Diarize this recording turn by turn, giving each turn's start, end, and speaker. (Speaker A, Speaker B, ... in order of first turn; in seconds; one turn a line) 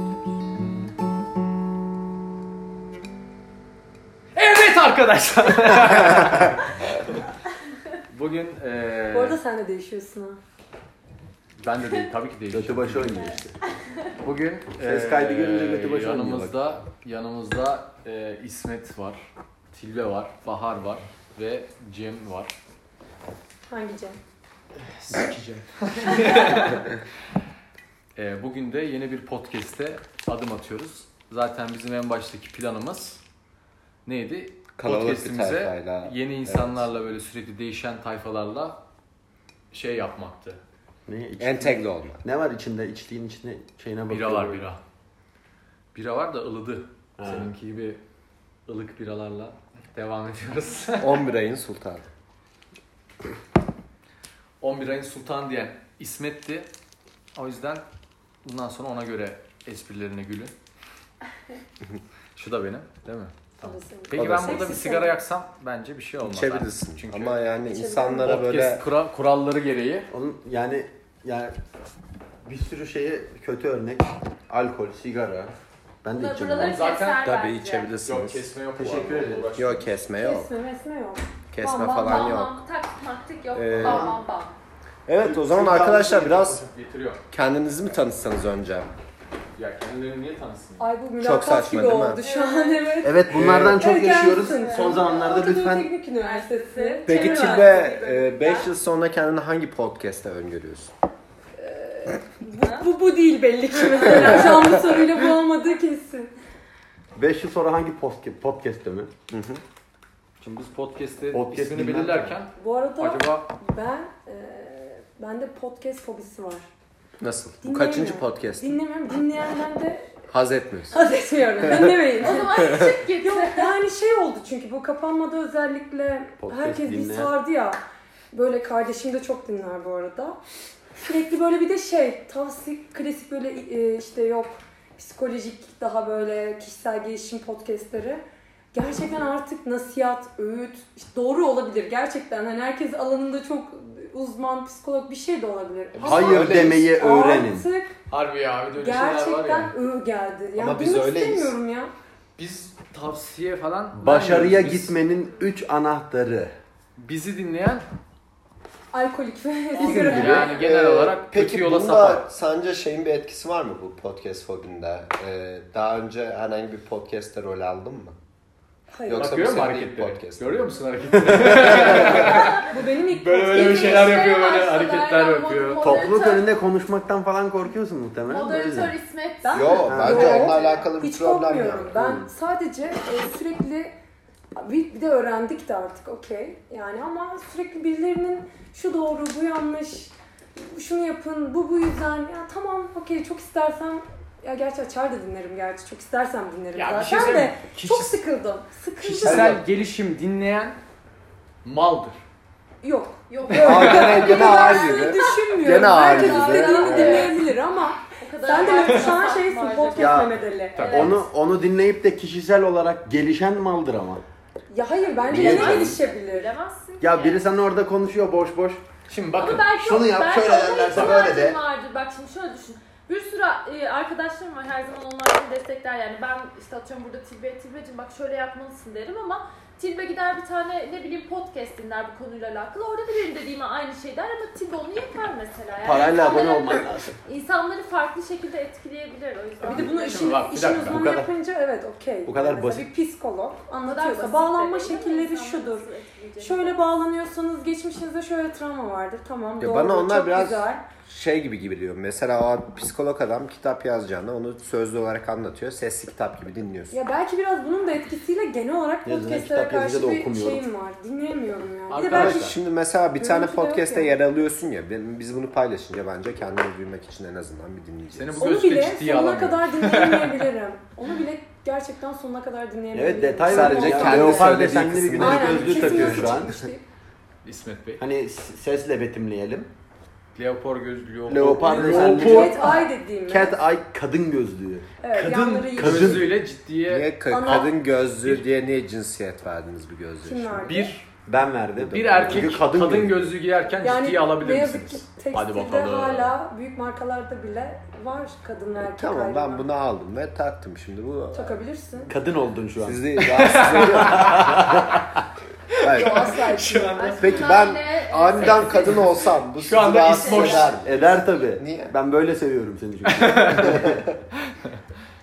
Speaker A: 4.3-7.0
Speaker A: 8.1-9.4
Speaker B: 9.1-10.4
Speaker A: 11.6-13.4
Speaker C: 12.5-13.6
Speaker A: 14.2-22.5
Speaker C: 14.8-16.6
Speaker B: 23.7-24.2
Speaker A: 24.8-26.9
Speaker A: 28.1-33.2
Speaker A: 34.0-38.8
Speaker D: 34.8-36.9
Speaker A: 39.7-40.6
Speaker C: 41.1-44.6
Speaker D: 41.4-42.2
Speaker A: 44.1-44.8
Speaker A: 45.9-48.0
Speaker C: 47.2-47.5
Speaker A: 48.7-51.2
Speaker D: 51.0-52.1
Speaker A: 54.6-56.7
Speaker A: 57.3-57.8
Speaker A: 58.4-60.5
Speaker A: 62.3-67.4
Speaker B: 63.6-65.2
Speaker D: 64.2-64.7
Speaker D: 66.2-68.8
Speaker B: 67.6-68.3
Speaker A: 68.2-70.1
Speaker C: 70.1-71.5
Speaker C: 72.5-75.5
Speaker C: 76.0-76.8
Speaker E: 76.2-77.9
Speaker A: 76.6-77.3
Speaker D: 77.2-78.5
Speaker A: 78.0-79.9
Speaker C: 78.8-79.5
Speaker D: 79.6-80.5
Speaker B: 80.2-82.4
Speaker D: 81.5-82.6
Speaker E: 82.0-84.6
Speaker D: 83.5-84.1
Speaker C: 83.8-84.2
Speaker D: 85.1-86.6
Speaker C: 85.2-86.5
Speaker A: 86.2-87.2
Speaker D: 87.3-88.9
Speaker A: 89.6-90.9
Speaker B: 90.8-97.8
Speaker D: 91.2-92.2
Speaker E: 92.2-93.0
Speaker C: 93.0-95.9
Speaker D: 93.3-93.8
Speaker E: 94.0-95.3
Speaker E: 96.2-98.7
Speaker D: 97.1-100.9
Speaker B: 101.6-106.3
Speaker E: 102.6-102.9
Speaker D: 104.3-104.6
Speaker C: 107.2-109.1
Speaker D: 109.3-109.6
Speaker A: 110.4-113.5
Speaker C: 111.3-112.4
Speaker B: 112.6-116.7
Speaker D: 117.2-118.8
Speaker B: 117.6-120.2
Speaker D: 120.3-121.0
Speaker B: 120.9-127.8
Speaker D: 121.6-121.9
Speaker E: 122.2-123.7
Speaker C: 126.4-127.3
Speaker B: 128.3-130.4
Speaker B: 131.0-147.9
Speaker D: 145.9-146.9
Speaker C: 146.1-147.7
Speaker A: 148.1-149.7
Speaker B: 148.8-151.9
Speaker D: 150.6-151.6
Speaker A: 152.4-154.9
Speaker C: 154.0-156.5
Speaker A: 157.0-157.9
Speaker B: 158.9-160.6
Speaker E: 159.8-160.5
Speaker C: 159.8-160.5
Speaker A: 159.8-162.2
Speaker D: 160.5-168.2
Speaker B: 168.9-169.4
Speaker D: 169.1-172.5
Speaker A: 169.2-176.0
Speaker C: 171.3-171.9
Speaker E: 172.3-172.6
Speaker B: 172.3-174.2
Speaker E: 173.5-176.5
Speaker C: 175.8-178.9
Speaker E: 178.3-180.9
Speaker B: 179.4-183.9
Speaker D: 179.5-182.2
Speaker C: 179.8-180.5
Speaker B: 184.6-199.6
Speaker A: 196.7-198.2
Speaker A: 199.0-200.8
Speaker D: 199.2-199.6
Speaker A: 201.6-202.2
Speaker B: 202.8-211.1
Speaker E: 203.3-207.5
Speaker D: 203.6-207.3
Speaker E: 208.2-211.2
Speaker A: 208.5-209.2
Speaker C: 210.0-214.2
Speaker A: 210.8-211.2
Speaker B: 214.7-216.5
Speaker E: 215.0-217.4
Speaker C: 215.2-216.0
Speaker C: 217.0-218.8
Speaker A: 219.1-219.7
Speaker E: 219.4-240.4
Speaker C: 219.8-221.6
Speaker A: 220.9-221.2
Speaker C: 235.8-237.2
Speaker B: 239.6-245.9
Speaker A: 239.8-241.2
Speaker C: 240.8-241.3
Speaker C: 242.2-242.9
Speaker E: 243.8-246.8
Speaker B: 246.4-250.9
Speaker D: 249.6-257.0
Speaker B: 256.9-262.6
Speaker C: 259.1-260.7
Speaker A: 261.9-262.6
Speaker D: 262.1-268.6
Speaker B: 263.2-264.1
Speaker A: 268.1-270.5
Speaker B: 268.4-276.9
Speaker C: 272.9-276.6
Speaker D: 273.5-276.7
Speaker A: 275.3-276.3
Speaker A: 277.4-278.0
Speaker C: 278.0-279.7
Speaker A: 280.4-282.8
Speaker C: 281.3-286.3
Speaker B: 281.8-283.6
Speaker B: 285.0-286.2
Speaker A: 285.7-288.4
Speaker D: 286.9-290.8
Speaker B: 287.3-287.7
Speaker B: 290.2-290.9
Speaker A: 290.7-291.1
Speaker C: 291.2-293.3
Speaker D: 291.8-292.6
Speaker A: 291.9-296.3
Speaker B: 293.8-299.7
Speaker D: 299.0-301.6
Speaker B: 301.3-302.1
Speaker C: 302.1-303.0
Speaker D: 302.8-304.5
Speaker A: 303.2-305.0
Speaker C: 303.9-304.8
Speaker A: 305.7-307.5
Speaker D: 305.8-306.2
Speaker B: 305.9-307.1
Speaker E: 306.9-309.2
Speaker D: 307.2-311.9
Speaker A: 308.4-310.8
Speaker E: 310.1-310.8
Speaker C: 310.8-314.1
Speaker A: 313.1-314.8